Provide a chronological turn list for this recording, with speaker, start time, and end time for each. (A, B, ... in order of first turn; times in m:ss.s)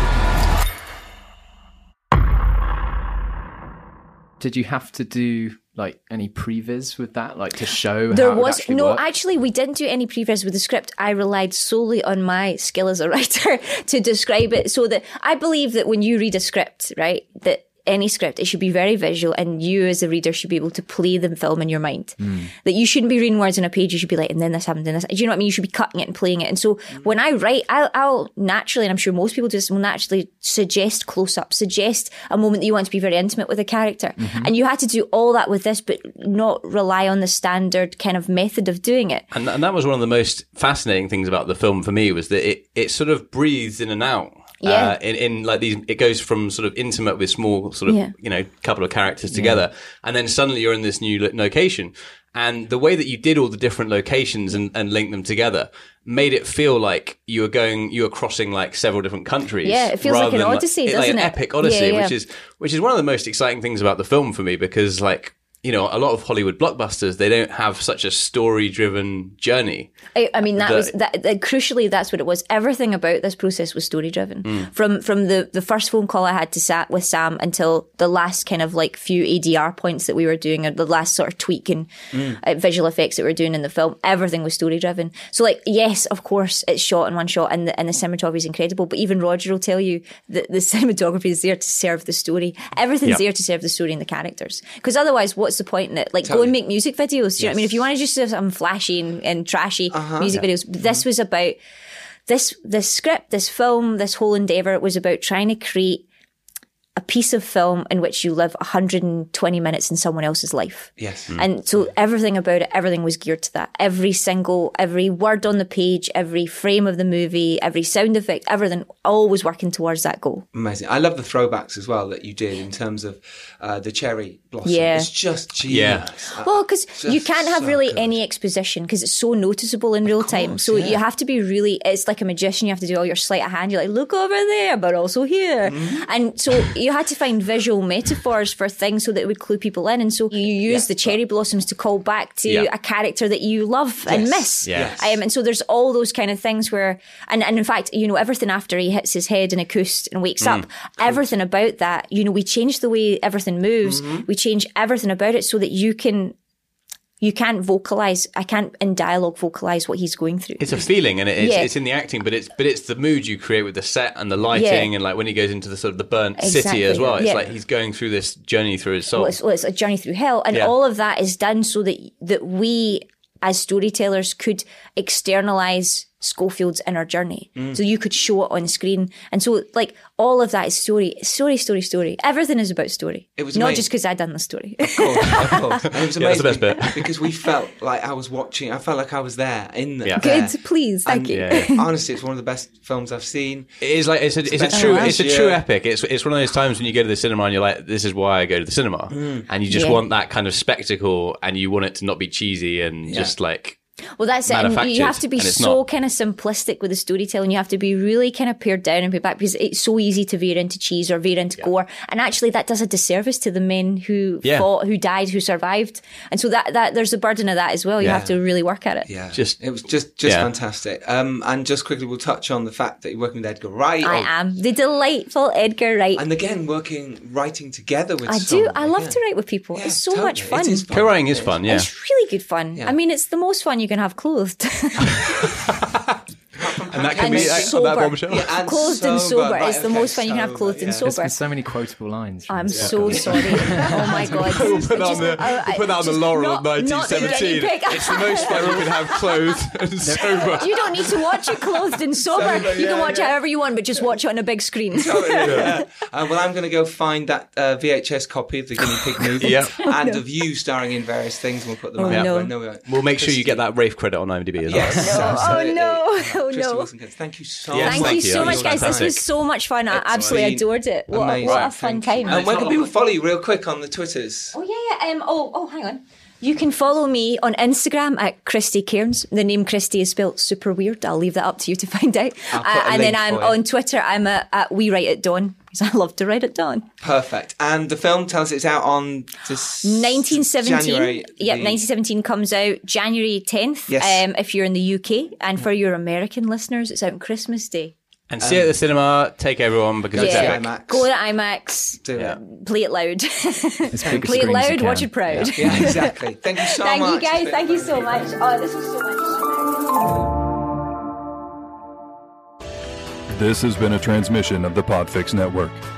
0:04.4-0:09.0 A
0:08.1-0:39.2 B
0:22.2-0:22.5 A
0:34.2-0:34.5 A
0:39.3-1:09.9 C
0:44.6-0:45.0 B
0:47.9-0:48.1 B
0:49.3-0:49.6 A
0:59.6-1:02.1 B
1:10.1-1:41.6 B
1:10.6-1:10.9 C
1:22.1-1:22.4 D
1:36.2-1:36.5 D
1:39.9-1:40.4 D
1:42.3-1:46.0 B
1:47.0-2:00.4 B
1:51.0-1:51.3 D
2:00.5-2:08.1 D
2:04.6-2:05.1 B
2:05.7-2:06.1 C
2:06.4-2:36.3 B
2:10.0-2:11.0 D
2:15.6-2:16.0 D
2:20.7-2:21.1 D
2:24.1-2:25.2 D
2:24.6-2:24.9 C
2:33.8-2:34.3 D
2:37.2-2:40.8 B
2:40.6-2:49.4 C
2:41.4-2:41.7 B
2:44.5-2:44.9 B
2:46.4-2:47.5 B
2:49.1-3:05.8 B
3:03.4-3:03.9 D
3:04.8-3:13.8 D
3:05.9-3:07.0 C
3:10.0-3:10.3 C
3:10.2-3:11.8 B
3:11.3-3:11.7 C
3:13.8-3:23.8 C
3:14.4-3:15.6 D
3:14.7-3:15.2 B
3:19.1-3:19.4 D
3:19.7-3:20.0 B
3:23.0-3:23.3 D
3:24.2-3:39.1 B
3:24.5-3:25.8 C
3:38.0-3:38.4 D
3:39.1-3:44.3 D
3:39.3-3:39.6 C
3:40.2-3:40.5 C
3:44.0-3:46.2 B
3:46.2-3:49.2 D
3:48.3-3:50.8 B
3:49.7-3:51.6 D
3:50.9-3:51.9 C
3:51.6-3:55.5 B
3:56.6-4:01.1 D
3:56.9-3:58.5 C
3:57.2-4:01.3 B
4:01.0-4:04.8 A
4:02.5-4:09.4 B
4:02.7-4:11.0 C
4:03.1-4:03.9 D
4:08.4-4:08.7 D
4:10.0-4:10.6 A
4:10.4-4:15.7 B
4:12.2-4:13.4 D
4:14.9-4:23.6 D
4:15.4-4:15.7 C
4:19.4-4:19.7 C
4:19.4-4:20.2 B
4:22.0-4:22.5 B
4:22.9-4:25.5 C
4:24.6-4:29.2 D
4:25.0-4:26.9 B
4:27.7-4:29.2 C
4:27.8-4:32.4 B
4:29.9-4:34.6 D
4:30.0-4:30.4 C
4:31.4-4:31.7 C
4:32.2-4:32.9 C
4:34.5-4:46.9 B
4:42.5-4:43.6 D
4:47.0-4:51.8 D
4:49.8-4:57.9 B
4:53.9-4:54.2 D
4:58.3-5:00.6 C
4:58.4-4:58.7 D
5:00.1-5:01.1 D
5:00.2-5:10.1 B
5:02.0-5:02.4 D
5:03.9-5:05.9 A
5:04.0-5:04.6 D
5:05.5-5:08.4 D
5:13.3-5:15.8 E